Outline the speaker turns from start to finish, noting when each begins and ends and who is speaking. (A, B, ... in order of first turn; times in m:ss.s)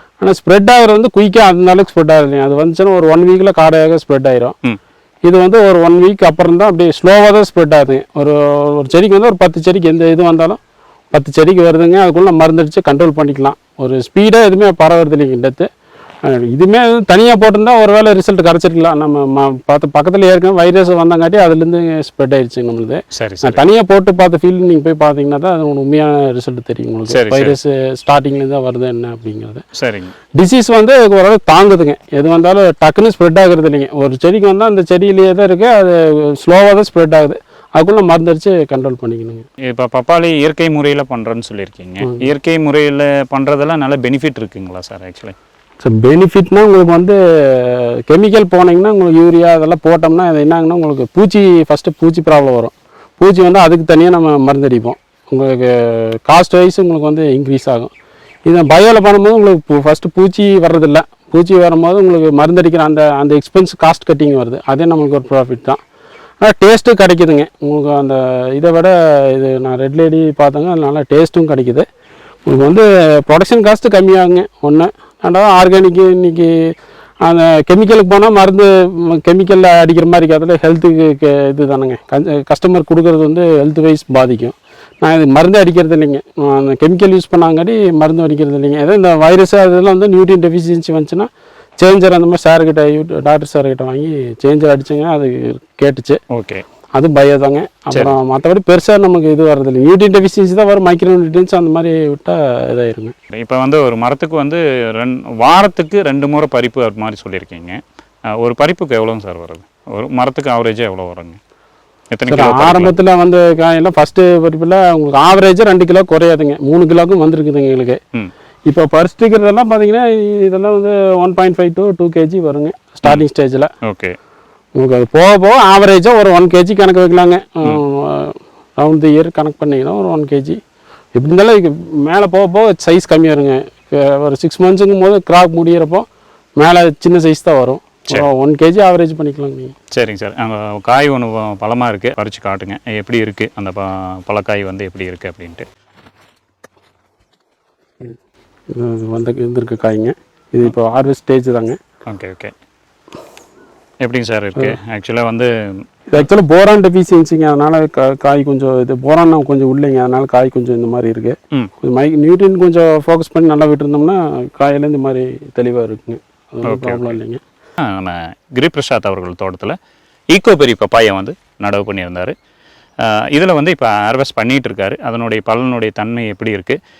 0:00.2-0:04.6 A
0:05.2-0:10.6 A
0:11.1-0:15.7 A
0:16.2-0:29.6 A
0:23.1-0:23.6 B
0:27.1-0:27.6 B
0:29.7-0:30.1 B
0:30.4-0:39.5 A
0:39.6-0:45.4 B
0:42.0-0:42.3 A
0:45.8-0:57.9 A
0:58.4-1:05.8 A
1:06.4-1:11.8 A
1:12.5-1:36.2 A
1:36.3-1:36.6 B
1:37.0-1:43.1 A
1:43.3-1:47.8 B
1:48.4-1:51.4 B
1:52.1-1:52.9 B
1:52.3-1:58.0 A
1:58.7-2:03.7 A
2:03.8-2:04.1 B
2:04.7-2:10.6 A
2:11.1-2:16.0 A
2:16.6-2:19.7 A
2:19.9-2:25.6 B
2:28.7-2:31.8 A
2:32.1-2:32.5 B
2:34.0-2:35.5 B
2:36.1-2:47.4 A
2:46.6-2:47.2 B
2:47.8-2:49.8 B
2:50.3-2:52.3 B
2:53.0-2:56.8 B